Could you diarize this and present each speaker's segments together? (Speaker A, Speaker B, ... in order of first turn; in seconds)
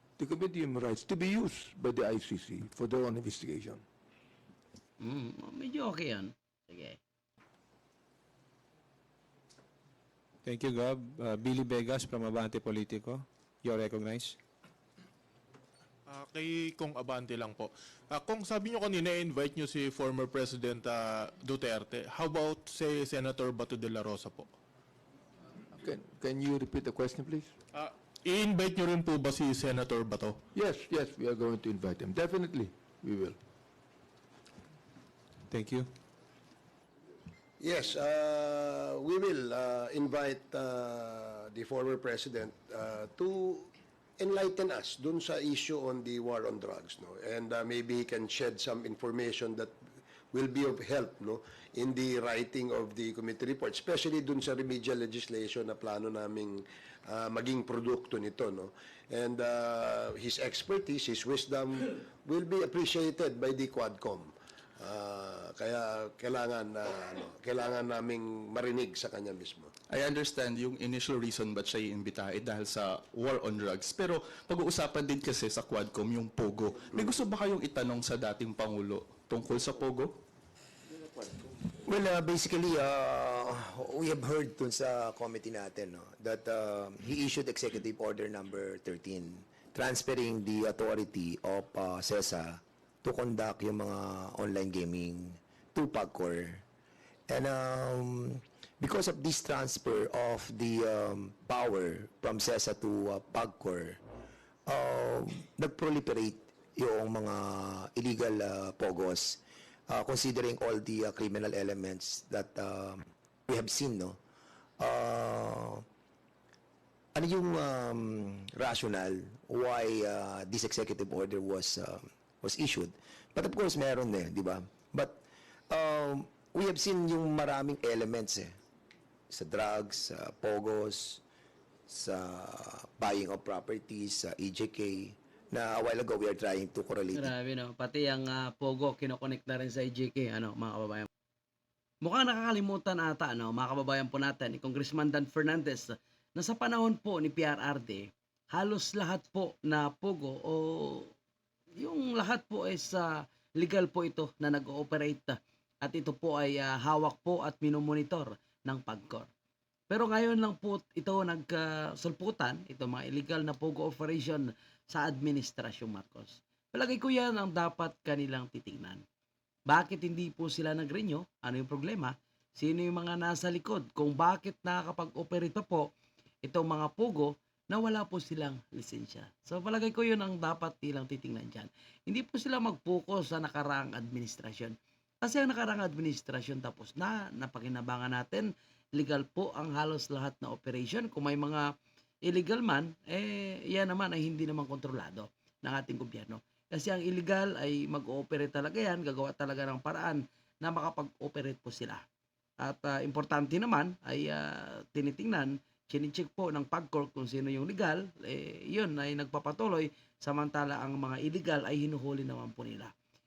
Speaker A: 0.2-3.8, 25.7-27.5, 30.5-33.4
Speaker B: 5.0-7.0, 137.1-141.1, 142.0-151.1, 151.8-159.3, 159.9-169.0, 169.7-175.9, 176.4-191.7, 192.2-202.0, 202.6-212.9
Speaker C: 10.4-14.4, 35.5-35.8
Speaker D: 16.1-24.4, 27.8-30.3
Speaker E: 37.6-49.7, 50.3-69.7
Speaker F: 69.9-80.1
Speaker G: 81.7-96.6, 97.3-104.0, 104.7-114.2, 114.8-115.8, 117.1-128.5, 129.3-131.2, 131.9-137.3